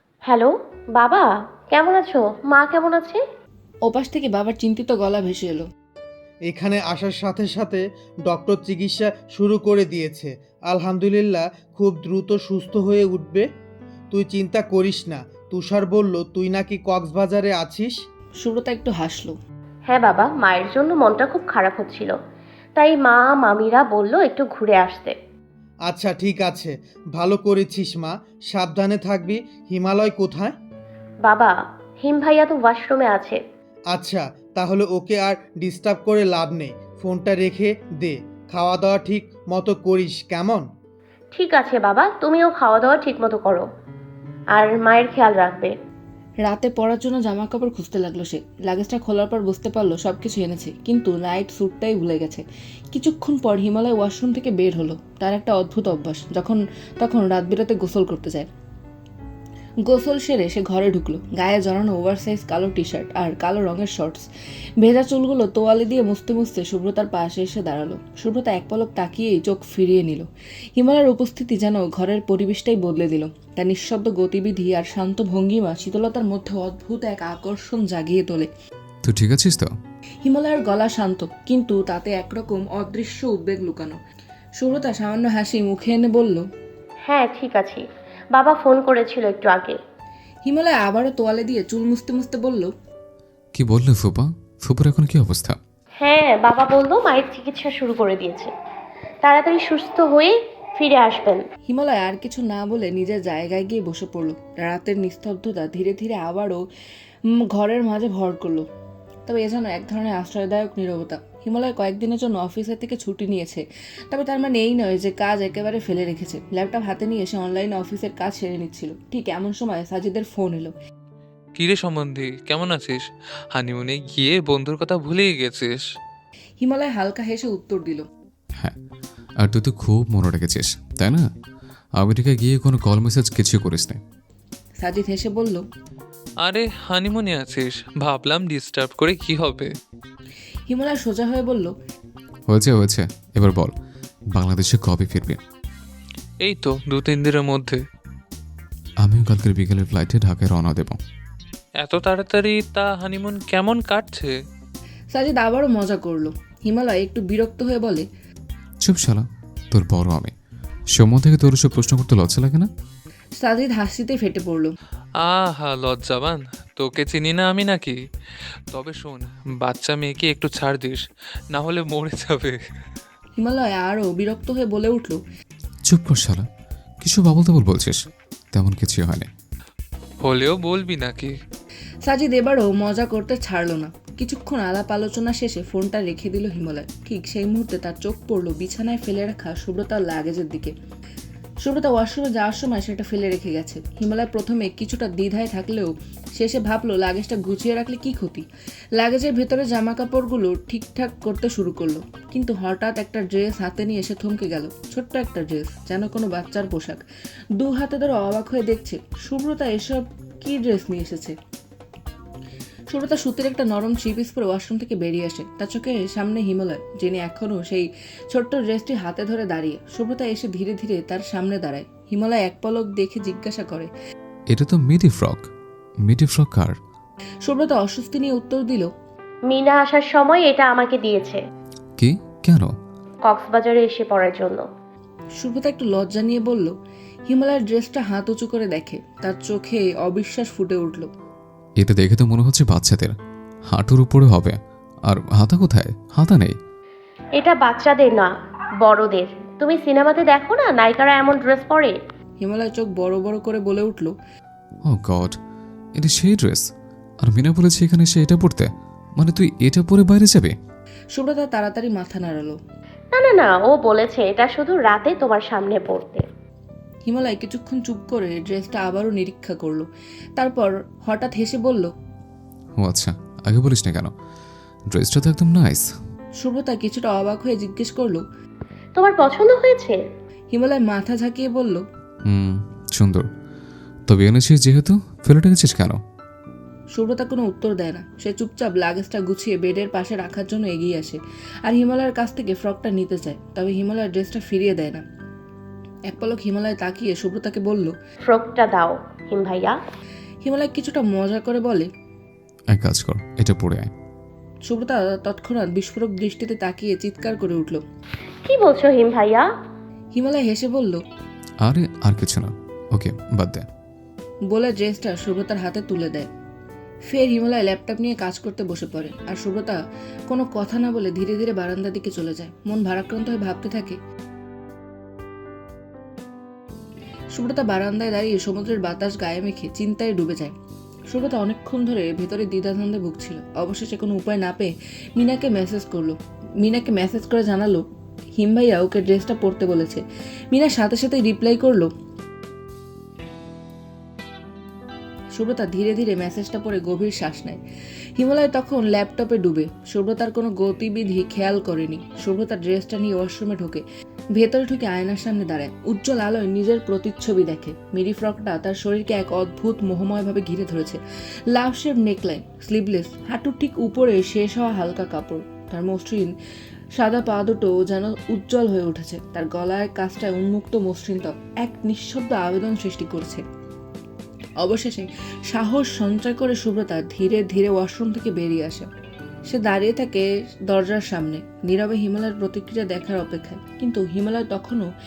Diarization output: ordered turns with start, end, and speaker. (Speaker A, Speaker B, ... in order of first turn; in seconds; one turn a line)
Speaker A: 0.3-3.2
Speaker B: 3.9-5.7
Speaker C: 6.5-13.4
Speaker C: 14.1-17.9
Speaker B: 18.4-19.4
Speaker A: 19.9-22.2
Speaker A: 22.8-25.1
Speaker C: 25.9-30.5
Speaker A: 31.3-33.4
Speaker C: 33.9-40.7
Speaker A: 41.3-43.6
Speaker A: 44.6-45.7
Speaker B: 46.4-58.5
Speaker B: 59.9-64.3
Speaker B: 64.8-78.5
Speaker D: 79.0-79.7
Speaker B: 80.2-84.0
Speaker B: 84.6-86.5
Speaker A: 87.1-87.8
Speaker A: 88.3-89.8
Speaker B: 90.5-92.7
Speaker D: 93.5-95.6
Speaker A: 96.0-98.5
Speaker A: 99.2-101.4
Speaker B: 101.7-106.6
Speaker B: 107.5-108.7
Speaker B: 109.3-120.7
Speaker E: 121.6-125.8
Speaker B: 126.6-128.1
Speaker D: 129.4-131.3
Speaker D: 132.0-134.0
Speaker B: 134.8-135.7
Speaker E: 136.4-139.7
Speaker B: 140.7-141.7
Speaker D: 142.5-143.7
Speaker D: 144.3-145.4
Speaker E: 146.4-147.8
Speaker D: 149.0-151.0
Speaker E: 151.8-154.3
Speaker B: 155.2-158.1
Speaker D: 158.8-160.3
Speaker D: 160.9-162.7
Speaker B: 163.4-164.7
Speaker E: 165.2-168.0
Speaker E: 168.7-172.6
Speaker B: 173.4-175.2
Speaker D: 175.9-176.4
Speaker D: 177.0-178.0
Speaker D: 178.5-179.3
Speaker E: 180.2-181.3
Speaker B: 182.1-190.7
Speaker B: 191.7-198.5
Speaker B: 199.0-207.0
Speaker B: 207.6-211.3
Speaker B: 212.9-223.9
Speaker D: 224.5-225.4
Speaker D: 226.1-226.8
Speaker B: 227.5-228.9
Speaker A: 229.5-231.4
Speaker D: 232.0-232.7
Speaker A: 233.3-234.6
Speaker B: 235.4-236.7
Speaker B: 237.3-241.1
Speaker D: 241.8-243.1
Speaker D: 243.7-246.5
Speaker A: 247.4-248.3
Speaker A: 248.8-252.0
Speaker B: 252.4-254.1
Speaker D: 254.9-255.3
Speaker D: 256.0-256.6
Speaker D: 257.2-260.5
Speaker B: 261.1-262.6
Speaker A: 263.1-266.2
Speaker B: 267.1-269.9
Speaker B: 270.4-271.9
Speaker D: 272.8-274.1
Speaker D: 274.9-275.9
Speaker B: 276.4-278.2
Speaker A: 279.0-280.0
Speaker B: 280.5-281.8
Speaker D: 282.2-283.3
Speaker D: 284.1-286.0
Speaker B: 287.0-295.0
Speaker B: 296.1-297.9
Speaker A: 298.3-299.8
Speaker B: 300.4-301.9
Speaker D: 302.7-303.9
Speaker B: 304.7-307.8
Speaker A: 308.5-309.4
Speaker B: 310.1-311.0
Speaker D: 311.6-313.7
Speaker B: 314.5-316.3
Speaker B: 317.1-319.8
Speaker B: 320.3-324.0
Speaker B: 327.4-330.5
Speaker B: 331.1-337.9
Speaker B: 338.4-341.9
Speaker B: 345.4-347.6
Speaker B: 348.2-353.8
Speaker B: 354.4-361.0
Speaker B: 361.5-366.3
Speaker B: 367.0-373.4
Speaker B: 374.6-378.9
Speaker B: 379.5-384.9